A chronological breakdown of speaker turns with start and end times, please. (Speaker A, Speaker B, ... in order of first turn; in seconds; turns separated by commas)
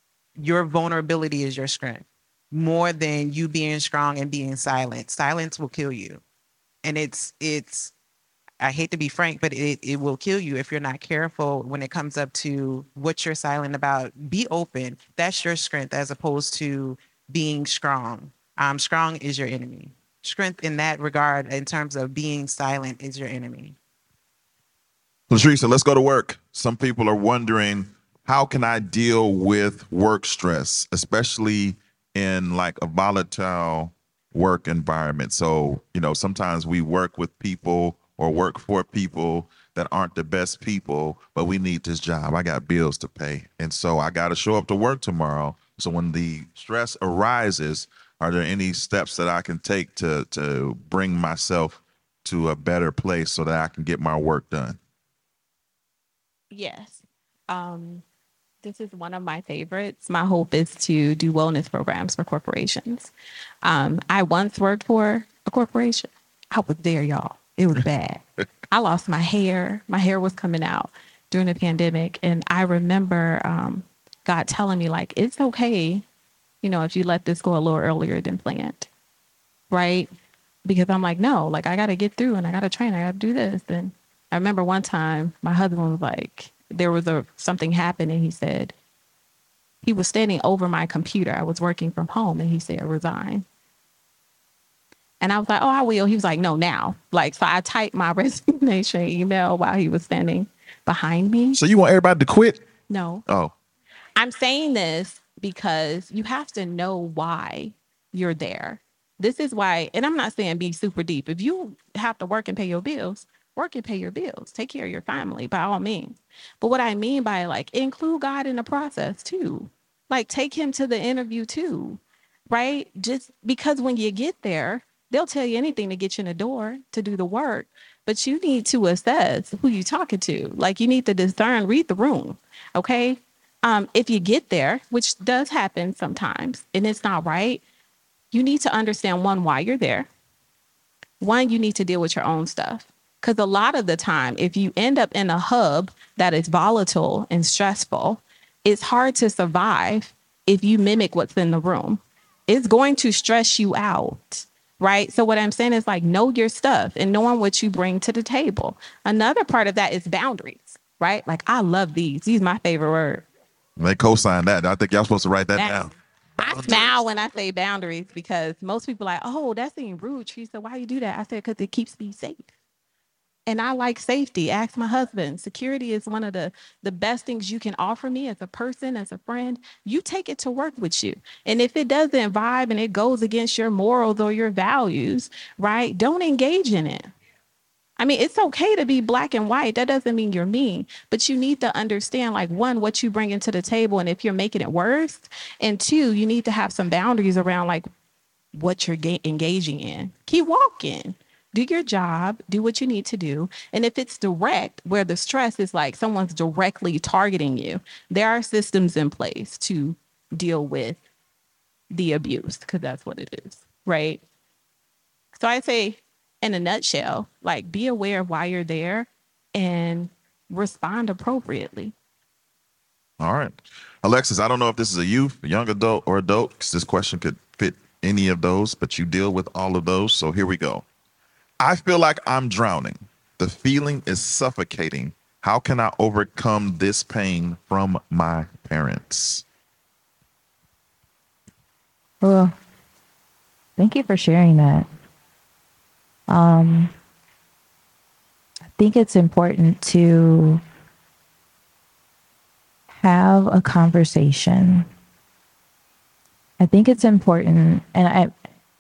Speaker A: 0.4-6.2, Speaker A: 6.8-7.9, Speaker A: 8.6-23.8, Speaker B: 25.3-54.8, Speaker C: 56.5-58.0, Speaker C: 58.6-63.1, Speaker C: 63.6-76.0, Speaker C: 76.6-78.9, Speaker C: 79.7-80.1, Speaker C: 80.7-88.7, Speaker C: 89.8-93.5, Speaker C: 95.2-101.6, Speaker B: 101.5-102.6, Speaker C: 102.9-103.2, Speaker B: 103.3-103.5, Speaker C: 104.2-137.6, Speaker C: 138.3-140.1, Speaker C: 141.2-163.2, Speaker B: 163.8-166.9, Speaker C: 165.6-165.9, Speaker C: 166.4-172.5, Speaker C: 173.5-187.1, Speaker C: 188.0-197.9, Speaker C: 198.5-211.0, Speaker C: 211.9-214.2, Speaker C: 215.3-221.9, Speaker B: 223.2-230.8, Speaker B: 231.6-239.4, Speaker D: 242.2-242.5, Speaker D: 243.8-244.9, Speaker D: 246.3-246.9, Speaker D: 248.8-250.6, Speaker D: 252.9-254.9, Speaker D: 256.6-258.3